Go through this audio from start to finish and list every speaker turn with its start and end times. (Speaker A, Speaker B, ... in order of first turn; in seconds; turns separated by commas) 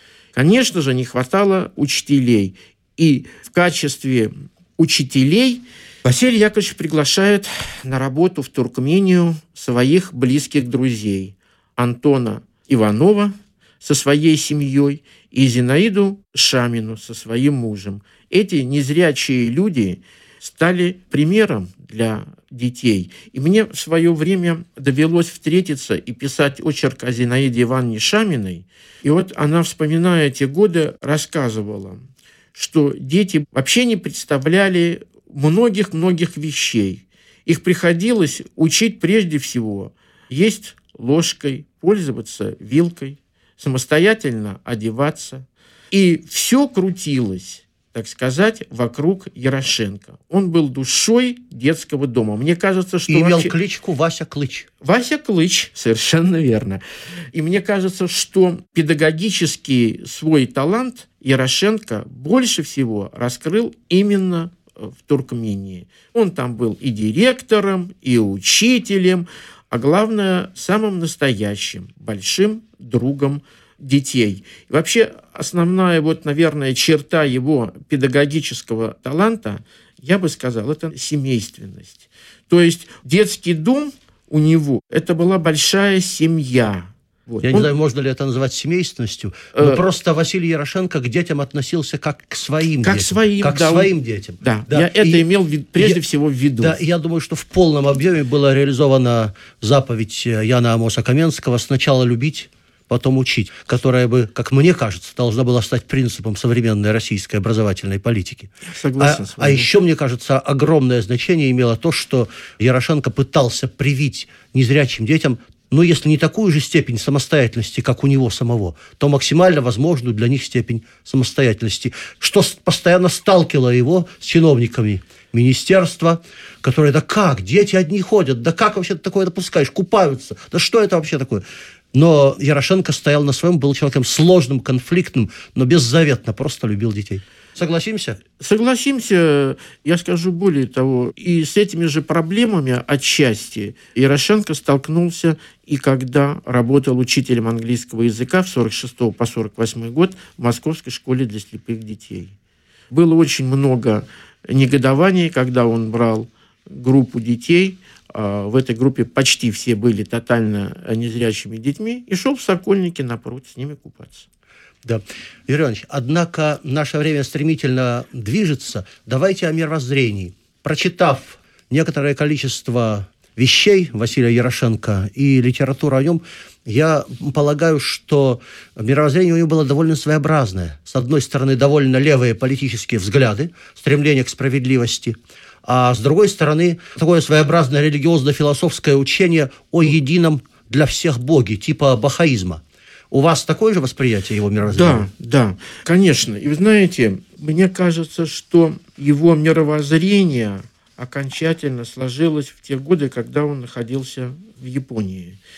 Speaker A: 0.3-53.5, Speaker B: 53.1-54.7, Speaker A: 54.8-56.8, Speaker A: 57.3-87.7, Speaker B: 87.4-95.2, Speaker A: 89.5-89.8, Speaker A: 92.8-96.8, Speaker B: 95.8-96.0, Speaker B: 96.6-138.2, Speaker A: 108.7-109.7, Speaker A: 138.4-152.3, Speaker A: 152.9-164.3, Speaker B: 164.8-195.1, Speaker A: 194.7-205.4